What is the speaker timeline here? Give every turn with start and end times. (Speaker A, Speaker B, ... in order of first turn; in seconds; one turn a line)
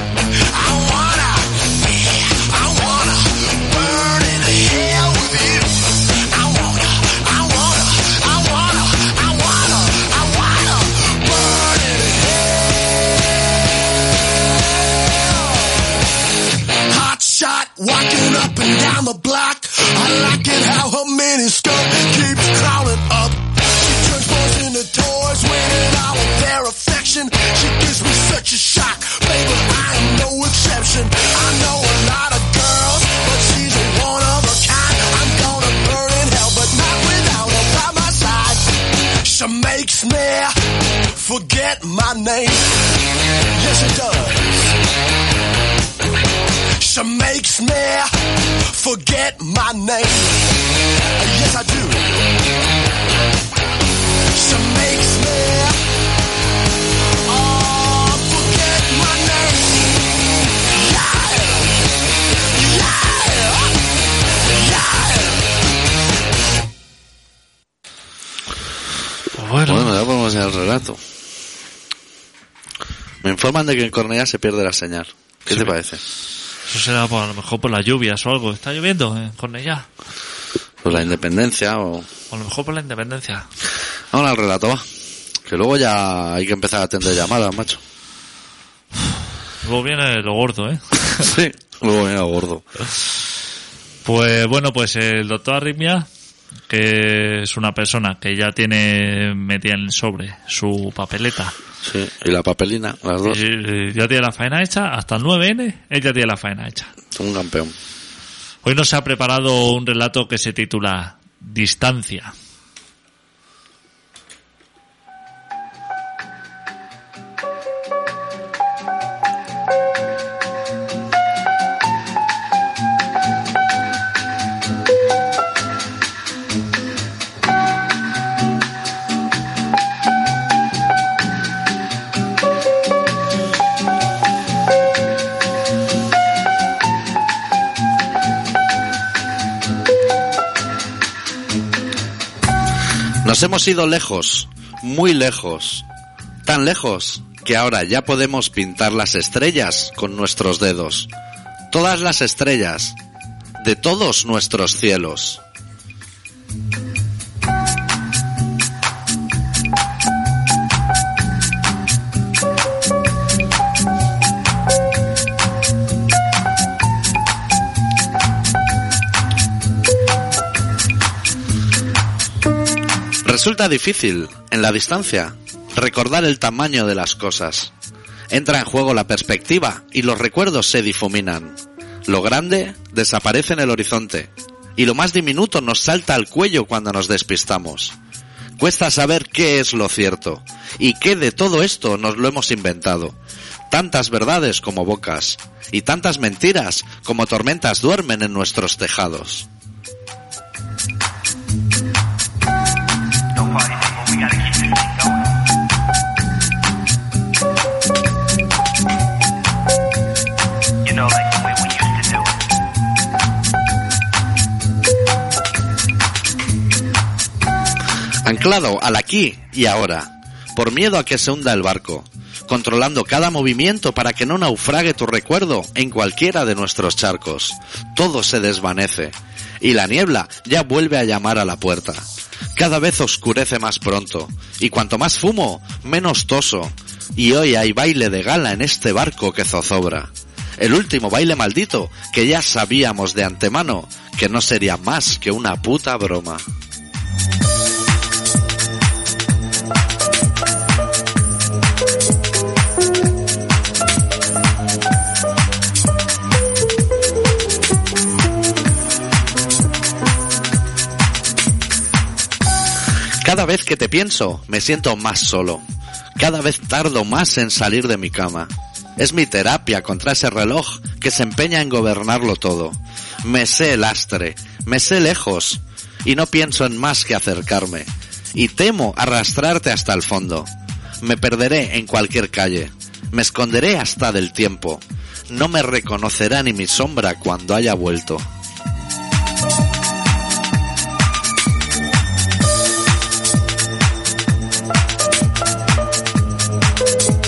Speaker A: 0.3-12.6
Speaker A: 15.1-15.7
Speaker A: 16.9-40.5
Speaker A: 41.1-42.8
Speaker A: 43.5-44.8
Speaker A: 46.8-50.5
Speaker A: 51.2-52.2
Speaker A: 54.3-55.8
Speaker A: 57.3-60.1
Speaker A: 60.6-61.8
Speaker A: 62.5-63.8
Speaker A: 64.4-65.4
Speaker B: 69.3-70.0
Speaker C: 69.7-71.0
Speaker C: 73.2-76.0
Speaker B: 76.7-79.9
Speaker C: 80.8-82.1
Speaker B: 82.3-83.5
Speaker C: 84.1-84.8
Speaker C: 85.4-87.8
Speaker B: 89.6-91.3
Speaker C: 91.2-92.6
Speaker B: 94.0-96.1
Speaker B: 96.7-101.5
Speaker C: 101.8-103.4
Speaker B: 103.2-106.9
Speaker C: 107.1-107.7
Speaker B: 108.6-112.3
Speaker C: 143.2-145.8
Speaker C: 146.4-151.1
Speaker C: 151.7-152.9
Speaker C: 153.6-155.4
Speaker C: 173.2-177.7
Speaker C: 178.3-187.9
Speaker C: 188.6-193.2
Speaker C: 193.7-199.5
Speaker D: 203.3-205.3
Speaker D: 210.8-212.4
Speaker C: 218.2-246.4
Speaker C: 263.2-265.6
Speaker C: 266.1-280.5
Speaker C: 281.0-288.2